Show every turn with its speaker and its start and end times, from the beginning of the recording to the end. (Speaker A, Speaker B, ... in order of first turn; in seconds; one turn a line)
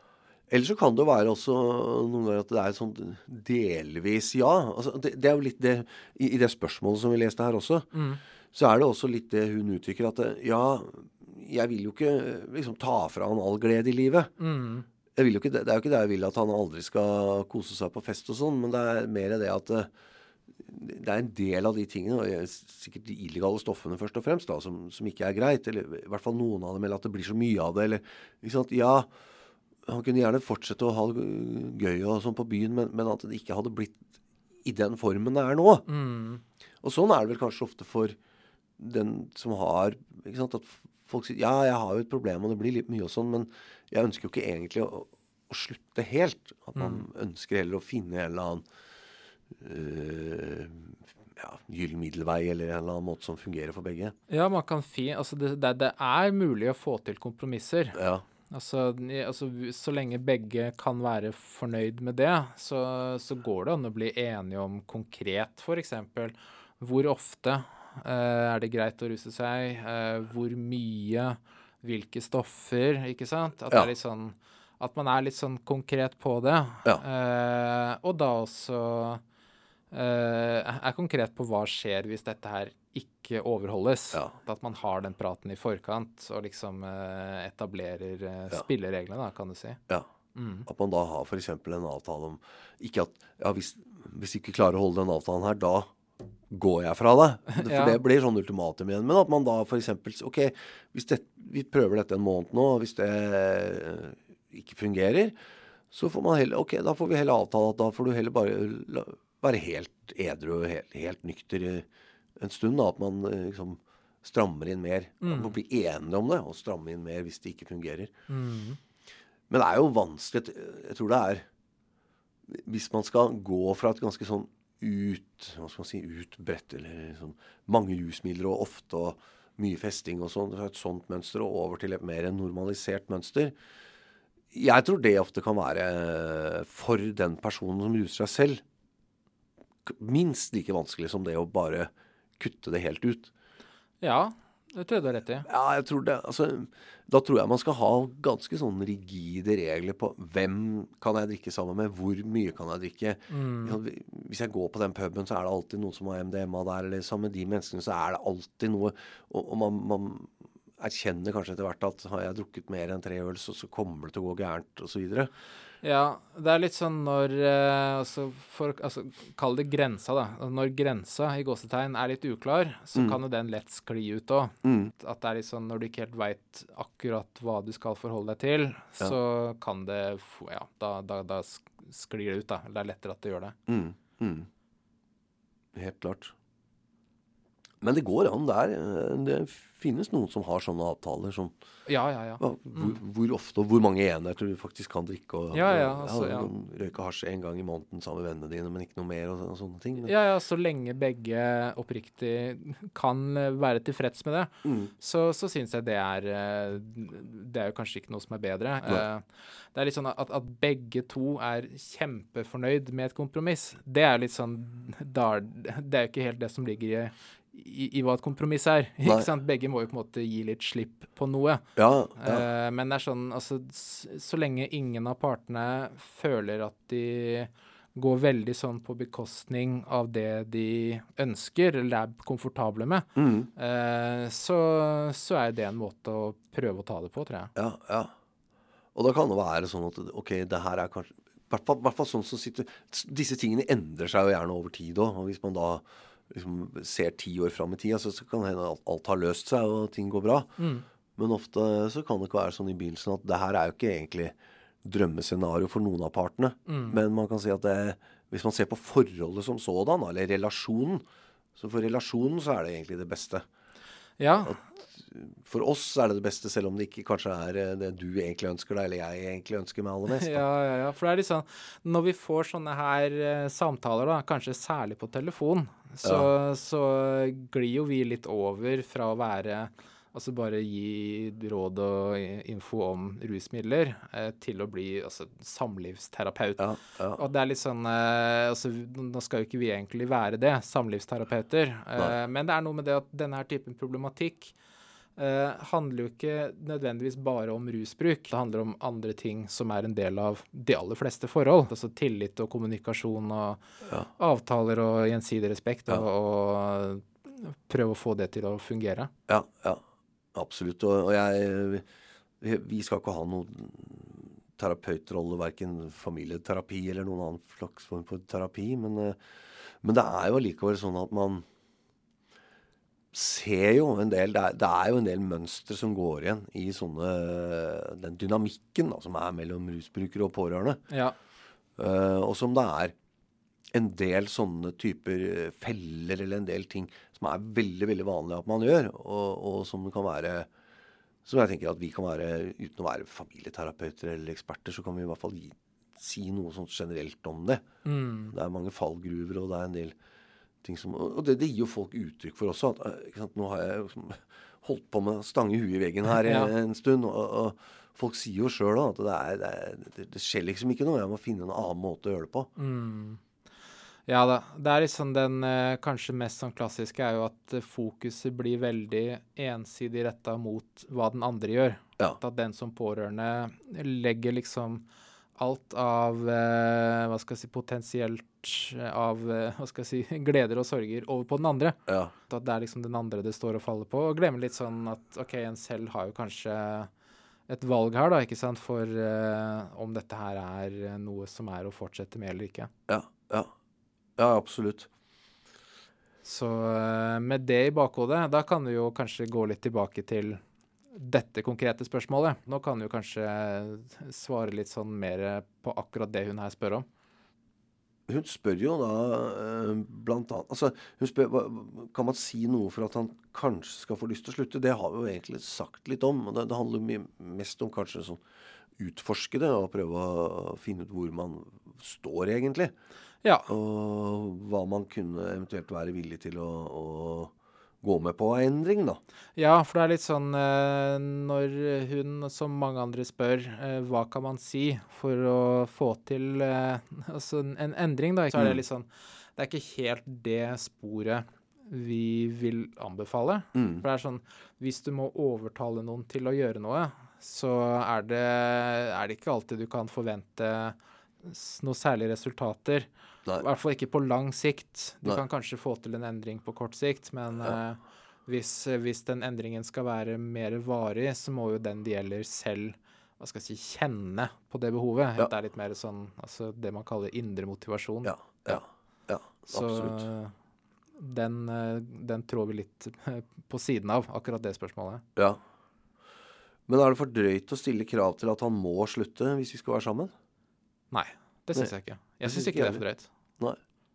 Speaker A: 0.5-7.9
Speaker B: 7.9-8.2
Speaker A: 8.5-14.3
Speaker B: 14.4-14.8
Speaker A: 15.1-19.9
Speaker A: 20.5-29.1
Speaker A: 29.9-34.0
Speaker A: 34.6-35.9
Speaker B: 35.9-36.4
Speaker A: 36.8-38.2
Speaker A: 38.8-48.6
Speaker B: 46.8-47.0
Speaker A: 49.5-54.1
Speaker B: 54.3-79.2
Speaker A: 57.9-58.2
Speaker B: 79.9-89.8
Speaker B: 90.3-90.7
Speaker A: 90.7-95.9
Speaker A: 96.5-105.3
Speaker B: 97.5-98.0
Speaker A: 105.9-111.9
Speaker A: 112.4-118.1
Speaker B: 115.2-115.5
Speaker B: 118.3-118.8
Speaker A: 119.5-121.5
Speaker A: 122.5-133.5
Speaker A: 134.5-138.6
Speaker A: 139.8-143.3
Speaker B: 144.0-145.5
Speaker A: 145.4-165.3
Speaker B: 153.3-153.8
Speaker B: 165.8-183.6
Speaker A: 174.6-174.9
Speaker A: 183.7-184.5
Speaker A: 185.7-186.3
Speaker A: 187.8-191.5
Speaker B: 191.9-193.0
Speaker A: 192.4-200.1
Speaker B: 195.5-196.5
Speaker B: 200.0-221.6
Speaker A: 204.6-204.9
Speaker A: 221.8-222.4
Speaker B: 222.2-237.5
Speaker A: 233.2-233.5
Speaker A: 237.6-238.1
Speaker A: 238.9-250.5
Speaker B: 250.6-250.8
Speaker A: 251.2-261.0
Speaker B: 256.7-257.0
Speaker A: 261.6-263.4
Speaker B: 264.2-264.6
Speaker A: 264.4-270.4
Speaker B: 270.1-294.5
Speaker A: 286.6-287.2
Speaker B: 295.2-303.6
Speaker B: 304.2-309.1
Speaker A: 309.3-309.8
Speaker A: 310.3-311.9
Speaker A: 312.4-321.4
Speaker A: 323.1-330.8
Speaker B: 330.9-331.1
Speaker A: 331.8-332.9
Speaker A: 333.7-340.5
Speaker A: 341.2-347.6
Speaker B: 347.8-348.3
Speaker A: 348.3-349.9
Speaker A: 350.6-362.5
Speaker B: 356.2-356.5
Speaker B: 362.6-363.2
Speaker B: 364.1-374.8
Speaker B: 375.4-386.9
Speaker A: 381.9-382.1
Speaker B: 387.5-392.7
Speaker A: 392.9-393.5
Speaker A: 394.2-394.9
Speaker B: 396.2-400.4
Speaker B: 400.9-406.9
Speaker A: 408.1-418.2
Speaker A: 418.8-422.7
Speaker B: 423.2-423.5
Speaker A: 423.5-429.0
Speaker B: 429.4-468.6
Speaker A: 438.3-438.6
Speaker A: 443.5-443.8
Speaker A: 468.0-470.0
Speaker B: 469.5-470.3
Speaker B: 471.0-475.0
Speaker A: 476.7-480.1
Speaker B: 480.9-483.1
Speaker A: 482.2-482.8